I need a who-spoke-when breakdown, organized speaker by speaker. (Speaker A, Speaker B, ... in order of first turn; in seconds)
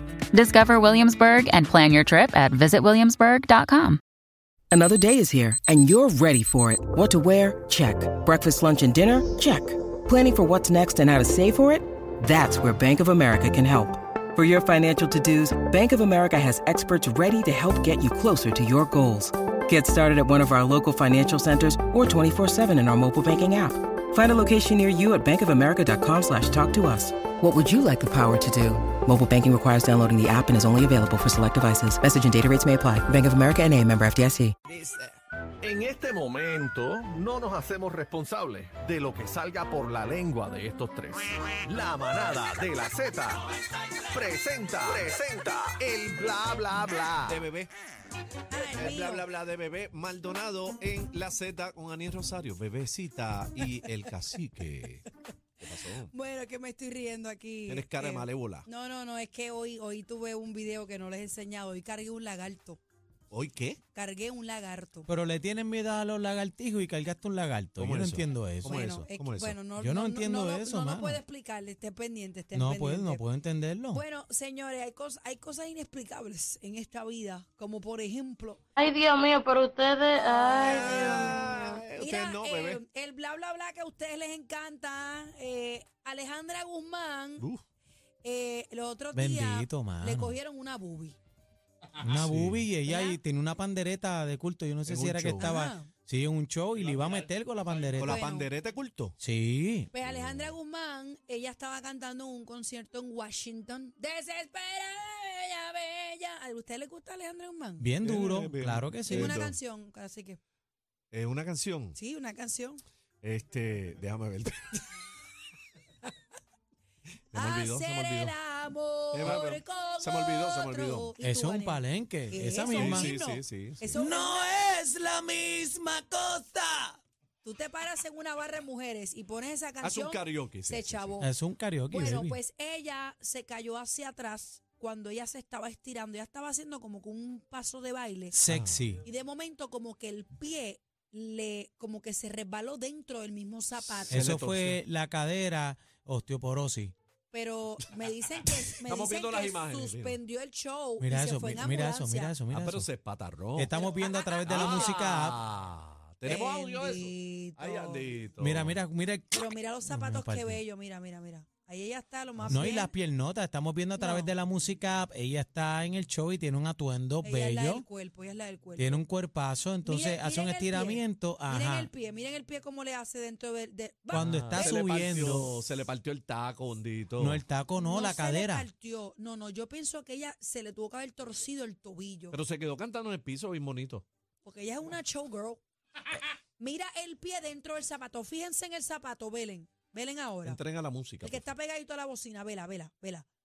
Speaker A: 0.3-4.0
Speaker B: 4.7-34.5
Speaker C: 34.7-43.5, 44.1-47.5
Speaker D: 47.3-47.7, 48.7-55.0, 55.6-56.1, 57.7-58.7, 63.3-63.8, 67.8-69.6, 80.6-82.8, 92.1-92.7, 94.9-95.5, 98.0-99.2, 100.0-100.5, 108.0-109.6, 111.1-112.0, 113.2-114.8, 117.3-118.3, 119.1-121.1, 122.7-123.9, 129.8-131.2, 138.5-138.9, 144.0-144.8, 148.8-150.2, 152.5-153.8, 154.4-158.8, 174.2-177.4, 182.3-184.1, 190.4-191.5
Speaker E: 48.5-49.3, 55.6-62.8, 63.9-65.1, 68.7-73.2, 73.9-78.6, 80.3-87.5, 88.2-91.2, 92.8-93.2, 95.4-95.9, 98.0-98.5, 99.9-107.9, 109.1-110.4, 112.0-112.8, 117.3-124.6, 127.4-131.3, 131.9-138.4, 139.0-144.3, 147.3-152.4, 153.7-155.1, 156.2-158.1, 159.3-162.9, 164.0-164.3, 167.2-169.0, 169.8-174.8, 177.8-182.4, 184.4-185.6, 186.6-190.6, 191.2-193.3
Speaker F: 65.1-69.1, 69.8-71.2, 72.5-74.0, 89.1-90.4, 92.0-98.2, 99.2-99.9, 107.8-109.5, 121.2-123.1, 123.9-127.0, 131.2-132.4, 138.3-139.1, 144.1-146.9, 151.0-152.9, 153.6-155.4, 158.4-160.6, 162.5-167.8, 168.8-171.9, 174.1-175.6, 177.2-178.7
Speaker G: 78.8-81.5